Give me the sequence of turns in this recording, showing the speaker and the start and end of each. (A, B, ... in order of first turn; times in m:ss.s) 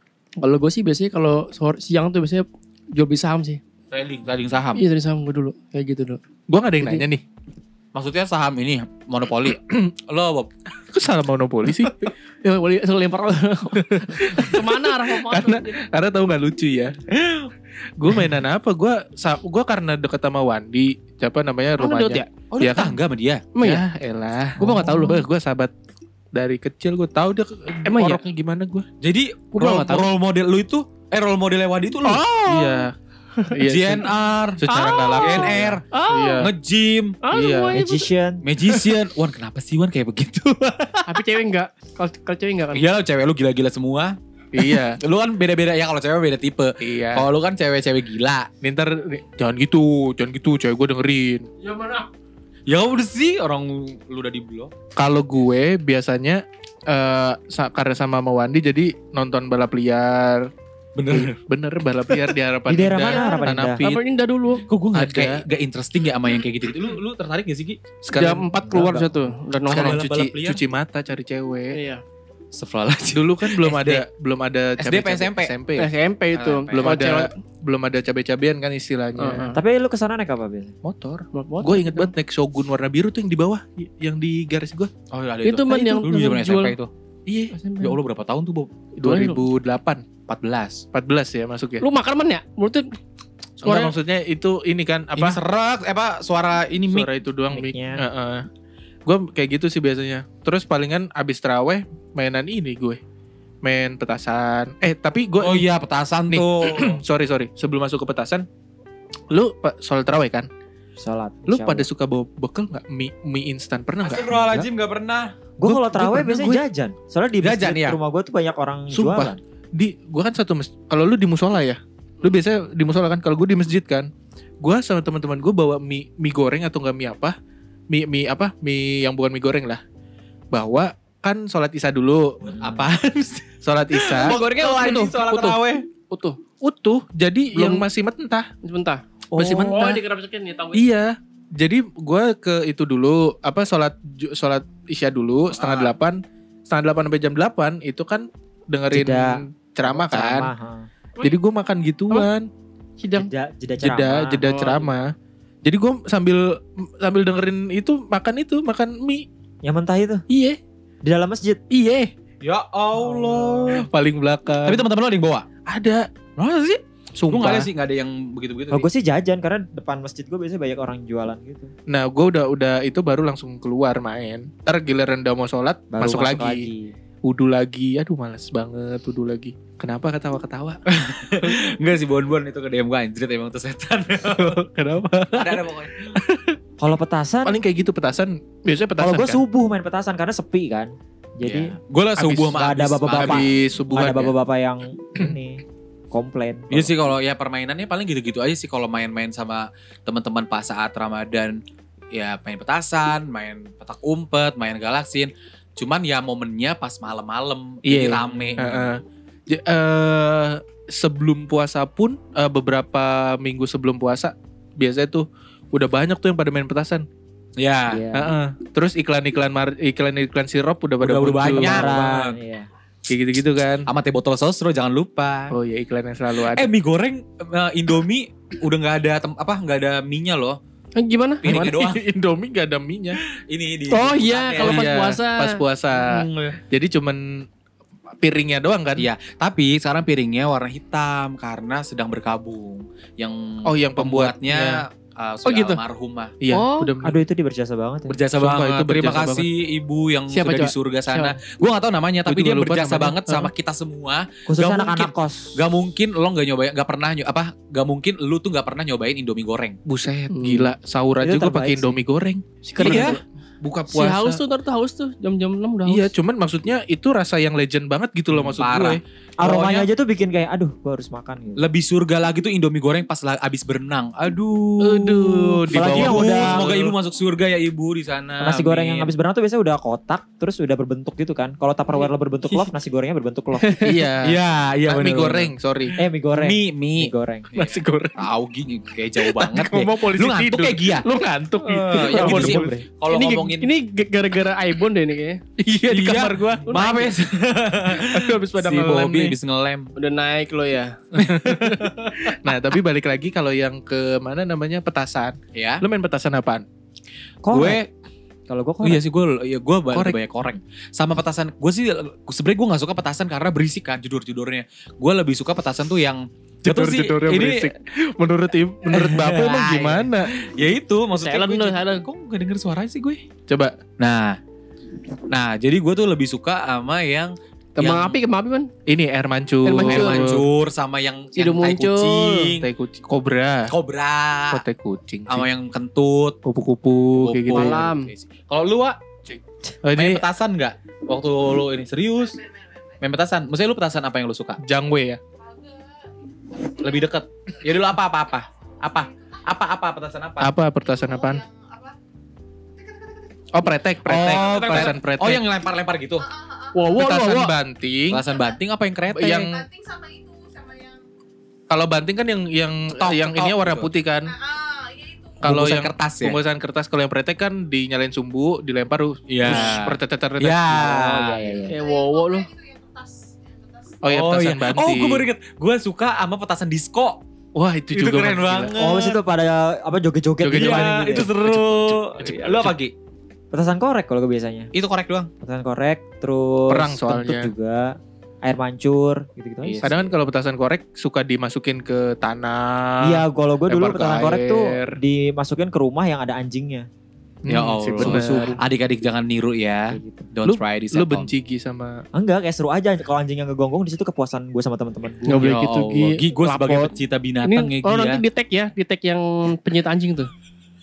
0:00.4-0:03.6 A
0:03.9-0:04.8 B
0:04.8-0:06.2 A
0:06.5-0:07.2 C
0:07.9-0:10.5 B
0:10.9-0:11.9 C
0:12.4-0:15.8 A
0:13.8-0:17.3 C
0:18.0-0:23.0 C
0:21.8-0:22.3 A
0:22.5-0:23.5 B
0:23.5-0:23.8 A
0:23.6-0:25.7 C
0:24.6-0:25.2 A
0:26.3-0:28.9 C
0:27.8-0:28.2 A
0:29.0-0:32.7 B
0:29.5-0:30.1 A
0:32.1-0:32.9 C
0:32.2-0:32.7 A
0:33.5-0:36.5 C
0:33.6-0:35.8 B
0:34.6-0:36.4 A
0:36.4-0:37.2 B
0:37.2-0:38.1 A
0:37.3-0:37.8 C
0:37.7-0:38.4 D
0:38.4-0:41.2 B
0:41.0-0:42.8 A
0:42.7-0:48.5 B
0:44.5-0:45.0 C
0:46.8-0:47.2 C
0:48.6-0:51.5 C
0:51.6-0:52.1 A
0:52.7-0:54.7 B
0:55.0-1:00.5 C
1:01.0-1:01.3 B
1:01.1-1:04.0 C
1:02.7-1:03.8 D
1:03.0-1:04.6 A
1:04.7-1:07.8 B
1:04.9-1:05.4 C
1:08.0-1:09.1 C
1:08.1-1:10.0 A
1:08.7-1:09.0 D
1:09.7-1:11.8 C
1:09.7-1:10.6 B
1:11.7-1:12.0 A
1:12.5-1:14.0 B
1:13.1-1:15.9 C
1:14.8-1:15.5 B
1:15.8-1:17.3 A
1:16.3-1:17.0 B
1:16.7-1:19.5 C
1:19.2-1:19.6 A
1:19.5-1:20.7 D
1:20.8-1:24.9 C
1:21.3-1:22.1 A
1:25.1-1:26.9 B
1:25.4-1:26.7 A
1:27.3-1:27.5 C
1:27.5-1:28.0 A
1:27.8-1:28.7 B
1:29.0-1:30.0 C
1:29.0-1:29.4 A
1:30.3-1:30.8 B
1:30.9-1:31.8 C
1:31.8-1:32.9 A
1:33.6-1:35.4 C
1:33.6-1:33.9 A
1:35.2-1:37.1 B
1:36.9-1:38.4 C
1:37.5-1:38.0 D
1:39.0-1:43.0 C
1:43.6-1:45.6 C
1:45.4-1:47.0 B
1:46.3-1:48.4 C
1:49.3-1:50.5 C
1:51.0-1:51.9 D
1:51.5-1:54.4 C
1:54.0-1:55.3 B
1:55.6-1:59.4 D
1:55.6-1:56.6 C
1:57.4-1:58.0 B
1:58.9-2:04.1 C
2:04.6-2:07.4 C
2:07.9-2:09.8 C
2:10.5-2:12.5 C
2:12.5-2:12.9 D
2:12.6-2:15.8 B
2:13.6-2:14.4 C
2:14.2-2:16.4 A
2:16.6-2:18.5 C
2:17.5-2:17.8 A
2:18.6-2:20.9 A
2:19.3-2:20.0 C
2:20.7-2:30.5 C
2:25.5-2:25.9 B
2:28.9-2:30.9 D
2:31.2-2:32.5 C
2:33.0-2:33.3 A
2:33.1-2:34.5 D
2:33.8-2:35.1 C
2:34.4-2:34.9 A
2:35.6-2:39.2 C
2:39.6-2:40.2 D
2:40.3-2:40.6 C
2:41.0-2:41.6 D
2:41.7-2:42.1 C
2:42.4-2:43.8 B
2:43.0-2:43.8 D
2:43.7-2:44.8 C
2:44.6-2:45.4 B
2:45.6-2:46.1 C
2:46.4-2:48.9 B
2:47.2-2:47.7 C
2:48.7-2:51.7 D
2:51.9-2:56.7 C
2:55.9-2:56.9 D
2:57.2-3:00.8 C
3:00.9-3:04.6 B
3:01.4-3:01.7 C
3:04.3-3:06.6 C
3:05.3-3:06.2 B
3:06.8-3:07.6 D
3:07.4-3:09.4 C
3:09.0-3:11.7 D
3:11.4-3:13.6 B
3:12.2-3:14.3 C
3:12.5-3:16.9 D
3:16.7-3:21.6 B
3:22.1-3:28.9 B
3:27.8-3:37.0 C
3:28.2-3:28.8 D
3:37.6-3:38.0 B
3:37.9-3:38.3 D
3:38.1-3:41.9 C
3:41.0-3:42.4 B
3:41.4-3:42.7 D
3:43.1-3:43.9 C
3:43.8-3:45.6 B
3:45.5-3:46.7 C
3:46.4-3:50.6 B
3:51.0-3:51.7 A
3:51.4-3:52.0 B
3:51.4-3:53.2 C
3:53.4-3:54.9 B
3:53.9-3:55.6 A
3:54.6-3:57.4 C
3:55.9-3:56.6 B
3:58.2-3:59.1 C
3:59.0-4:06.3 B
4:03.6-4:04.8 C
4:05.4-4:05.8 A
4:06.4-4:07.2 C
4:06.5-4:06.9 A
4:07.0-4:08.2 D
4:08.1-4:19.8 B
4:08.4-4:09.5 C
4:10.3-4:11.4 A
4:12.2-4:13.5 C
4:14.5-4:15.6 D
4:19.8-4:24.4 C
4:20.3-4:20.7 A
4:21.2-4:22.0 D
4:22.6-4:23.2 A
4:22.8-4:23.2 B
4:23.9-4:26.1 A
4:25.9-4:29.0 C
4:28.3-4:29.9 B
4:29.4-4:31.6 D
4:31.6-4:39.1 B
4:34.8-4:36.9 C
4:35.7-4:36.7 D
4:38.4-4:43.9 D
4:43.6-4:44.0 A
4:43.8-4:46.0 C
4:44.2-4:45.5 B
4:46.0-4:47.5 D
4:46.3-4:51.1 B
4:47.5-4:48.2 C
4:49.2-4:52.8 C
4:51.6-4:53.7 B
4:52.1-4:52.5 A
4:52.3-4:52.8 D
4:53.1-4:55.4 A
4:55.6-4:56.7 C
4:55.9-4:59.9 B
4:56.7-4:57.1 A
4:57.9-4:59.4 C
5:00.0-5:01.0 A
5:01.1-5:06.6 C
5:01.2-5:02.3 B
5:05.5-5:05.8 B
5:07.4-5:07.8 D
5:07.5-5:07.9 B
5:08.5-5:09.0 D
5:08.8-5:17.7 B
5:09.9-5:10.2 C
5:16.6-5:20.3 C
5:18.9-5:23.2 B
5:21.1-5:22.0 A
5:23.5-5:23.8 C
5:24.0-5:24.4 B
5:25.3-5:28.2 B
5:27.8-5:28.7 A
5:28.9-5:30.5 C
5:29.6-5:30.3 A
5:29.8-5:32.7 B
5:31.3-5:32.5 A
5:32.6-5:33.7 C
5:33.7-5:34.6 B
5:34.5-5:35.5 C
5:35.3-5:36.4 B
5:36.4-5:37.8 C
5:37.2-5:39.0 B
5:37.5-5:38.1 A
5:39.3-5:40.2 C
5:39.9-5:42.4 B
5:43.0-5:44.6 B
5:44.6-5:45.2 C
5:45.4-5:47.1 E
5:46.8-5:50.5 B
5:48.8-5:49.4 E
5:50.4-5:51.4 C
5:50.8-5:51.9 E
5:52.8-5:53.7 E
5:53.5-5:55.4 C
5:54.0-5:56.2 B
5:54.2-5:54.9 E
5:56.2-5:57.0 E
5:56.7-5:57.5 A
5:57.0-5:58.2 C
5:58.1-5:59.5 B
5:58.2-5:58.6 E
5:59.1-5:59.6 C
5:59.3-6:01.0 E
6:01.7-6:04.3 C
6:02.9-6:03.9 B
6:04.2-6:05.4 E
6:05.4-6:06.4 B
6:05.4-6:10.9 C
6:09.3-6:11.6 B
6:10.7-6:11.7 D
6:11.7-6:12.5 A
6:11.7-6:14.0 E
6:14.0-6:15.3 C
6:14.0-6:17.2 B
6:17.5-6:18.8 C
6:17.9-6:19.2 B
6:18.7-6:21.3 D
6:20.4-6:22.8 C
6:20.5-6:22.9 B
6:23.5-6:24.7 D
6:24.7-6:25.3 B
6:25.4-6:30.0 D
6:26.7-6:27.5 C
6:29.6-6:30.0 B
6:29.8-6:35.0 C
6:33.0-6:36.9 D
6:37.4-6:38.6 C
6:37.5-6:41.3 B
6:38.0-6:38.6 D
6:39.9-6:40.3 D
6:40.4-6:42.0 C
6:42.1-6:45.5 D
6:45.3-6:48.2 B
6:45.3-6:50.3 A